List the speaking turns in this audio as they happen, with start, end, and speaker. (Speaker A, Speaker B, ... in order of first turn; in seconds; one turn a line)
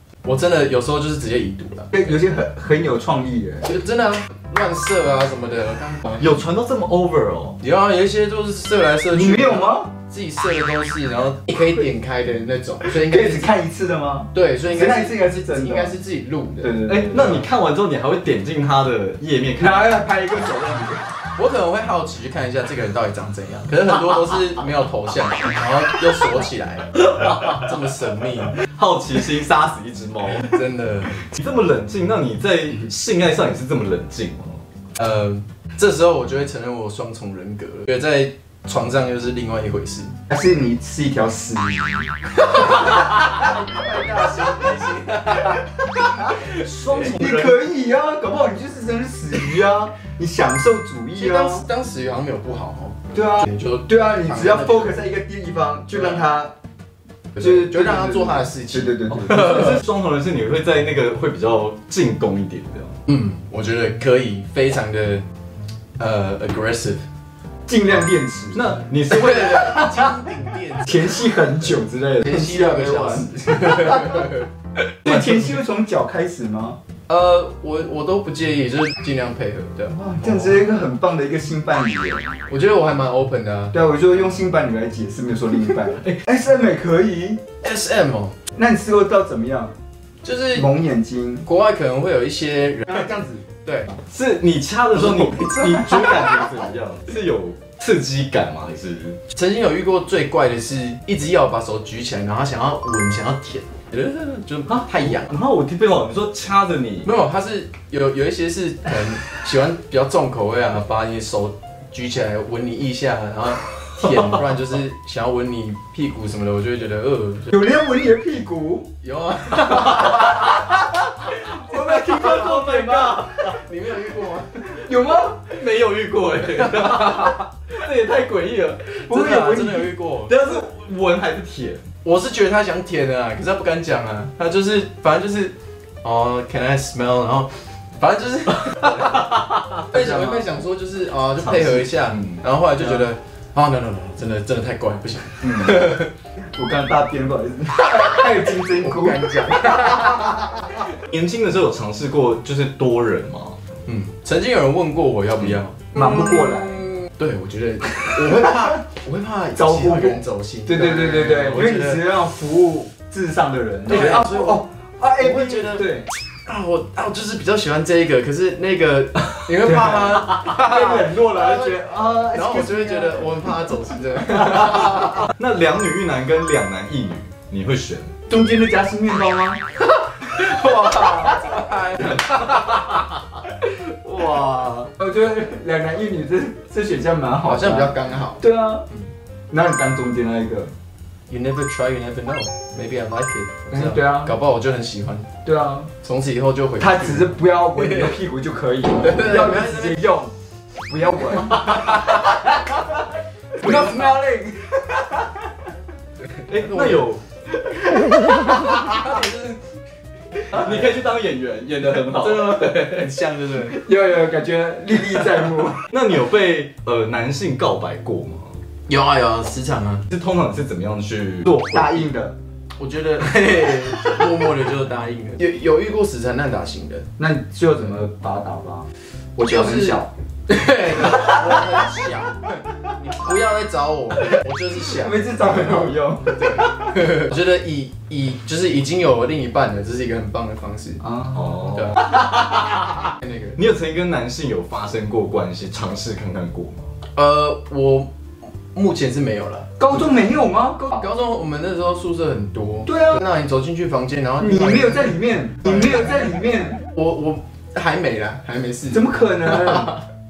Speaker A: 0.2-2.0
Speaker B: 1.9-3.7
Speaker A: 3.6-6.4
Speaker C: 6.2-7.6
Speaker A: 7.6-13.5
Speaker B: 9.1-9.9
Speaker B: 12.8-16.0
Speaker A: 14.3-16.8
Speaker B: 16.6-17.5
Speaker C: 16.9-19.9
Speaker B: 19.6-21.1
Speaker A: 21.4-28.6
Speaker C: 27.1-27.6
Speaker C: 28.6-30.6
Speaker A: 30.4-31.3
Speaker C: 31.2-34.6
Speaker A: 35.0-40.2
Speaker B: 40.3-42.1
Speaker A: 42.4-46.4
Speaker B: 42.7-44.7
Speaker C: 46.4-47.6
Speaker B: 46.9-51.7
Speaker A: 51.1-55.0
Speaker B: 53.1-56.5
Speaker A: 57.4-59.8
Speaker B: 57.4-59.8
Speaker C: 59.2-63.0
Speaker A: 63.1-65.2
Speaker A: 66.0-67.0
Speaker B: 67.7-68.8
Speaker C: 68.5-70.0
Speaker A: 69.1-71.3
Speaker B: 70.8-74.4
Speaker A: 72.2-74.5
Speaker B: 75.0-76.8
Speaker A: 77.1-80.3
Speaker B: 79.9-82.3
Speaker A: 82.5-83.8
Speaker B: 83.7-87.4
Speaker A: 87.6-88.4
Speaker B: 88.5-89.7
Speaker A: 90.2-90.7
Speaker B: 90.5-91.5
Speaker A: 91.5-93.1
Speaker B: 92.9-93.5
Speaker A: 93.6-93.9
Speaker C: 94.1-99.2
Speaker A: 94.9-96.5
Speaker A: 99.3-105.4
Speaker C: 104.7-107.1
Speaker A: 107.0-117.6
Speaker B: 117.5-118.9
Speaker A: 119.0-120.7
Speaker B: 121.5-123.3
Speaker A: 121.7-122.6
Speaker C: 121.7-123.6
Speaker A: 123.3-124.8
Speaker B: 124.7-125.5
Speaker C: 125.5-129.0
Speaker A: 126.6-127.4
Speaker B: 129.1-129.9
Speaker A: 129.1-130.4
Speaker C: 130.3-131.8
Speaker A: 132.0-139.3
Speaker C: 138.8-139.8
Speaker A: 139.9-146.1
Speaker B: 139.9-140.5
Speaker C: 141.4-142.4
Speaker C: 145.4-145.9
Speaker B: 146.5-150.6
Speaker A: 148.0-150.5
Speaker C: 151.0-153.6
Speaker A: 153.9-162.0
Speaker B: 155.9-156.9
Speaker B: 158.1-158.7
Speaker B: 159.6-166.1
Speaker A: 163.9-164.6
Speaker A: 165.2-165.9
Speaker A: 166.5-175.3
Speaker B: 169.6-173.4
Speaker C: 174.8-178.4
Speaker B: 178.3-179.6
Speaker A: 180.1-183.1
Speaker B: 181.1-181.4
Speaker A: 184.0-184.9
Speaker B: 185.0-188.9
Speaker A: 187.4-189.1
Speaker B: 189.5-190.7
Speaker A: 191.3-195.3
Speaker B: 193.7-194.3
Speaker B: 195.4-195.9
Speaker A: 196.0-198.1
Speaker B: 196.8-200.3
Speaker A: 199.0-200.0
Speaker B: 200.9-203.0
Speaker A: 201.6-202.2
Speaker B: 203.6-205.5
Speaker C: 203.6-204.0
Speaker C: 206.5-207.2
Speaker A: 206.6-207.1
Speaker B: 207.9-208.8
Speaker A: 208.8-209.6
Speaker C: 210.5-213.1
Speaker A: 212.1-213.8
Speaker B: 213.6-215.8
Speaker C: 215.9-218.6
Speaker A: 218.9-220.0
Speaker C: 220.1-222.1
Speaker B: 221.6-222.4
Speaker A: 222.8-227.1
Speaker B: 227.2-230.1
Speaker A: 229.4-241.1
Speaker B: 231.0-231.6
Speaker B: 234.8-236.6
Speaker B: 241.0-241.3
Speaker C: 241.3-246.9
Speaker A: 241.6-242.0
Speaker A: 243.2-243.6
Speaker A: 247.2-248.1
Speaker A: 248.7-249.7
Speaker B: 249.8-251.0
Speaker A: 250.9-256.1
Speaker B: 252.9-253.2
Speaker B: 254.4-256.8
Speaker A: 256.9-260.0
Speaker B: 258.9-260.0